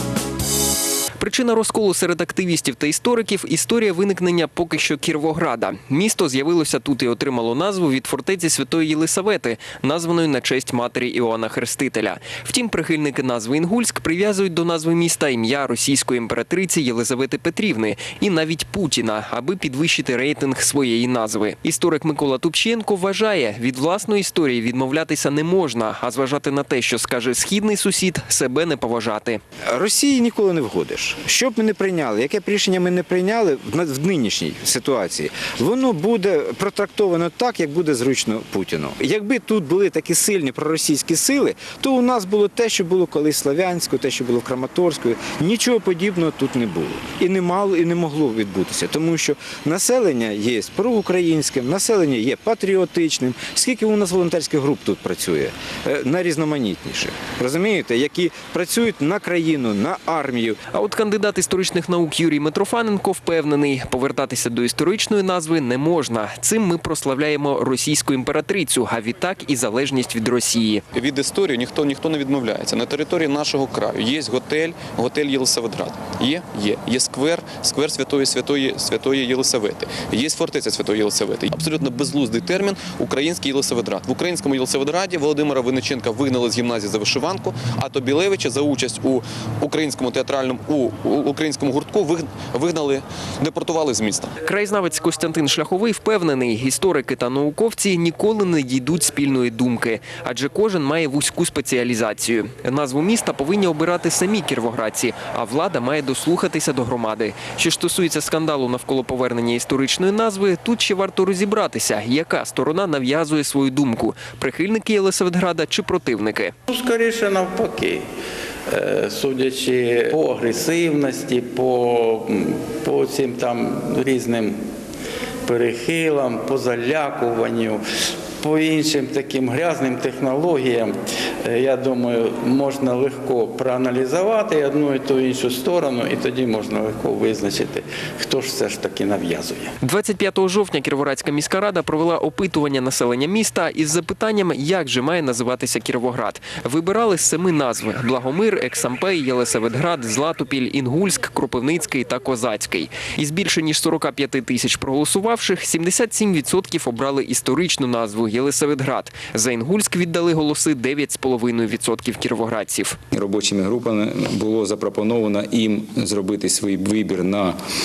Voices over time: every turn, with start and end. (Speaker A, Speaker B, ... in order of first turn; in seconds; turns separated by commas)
Speaker A: 1.2-29.4, Speaker B: 29.7-60.7, Speaker A: 60.7-70.8, Speaker C: 70.9-94.3, Speaker A: 94.4-116.5, Speaker D: 116.7-118.0, Speaker D: 118.7-124.6, Speaker D: 125.4-127.8, Speaker D: 128.4-139.7, Speaker A: 139.8-163.0, Speaker E: 163.1-167.6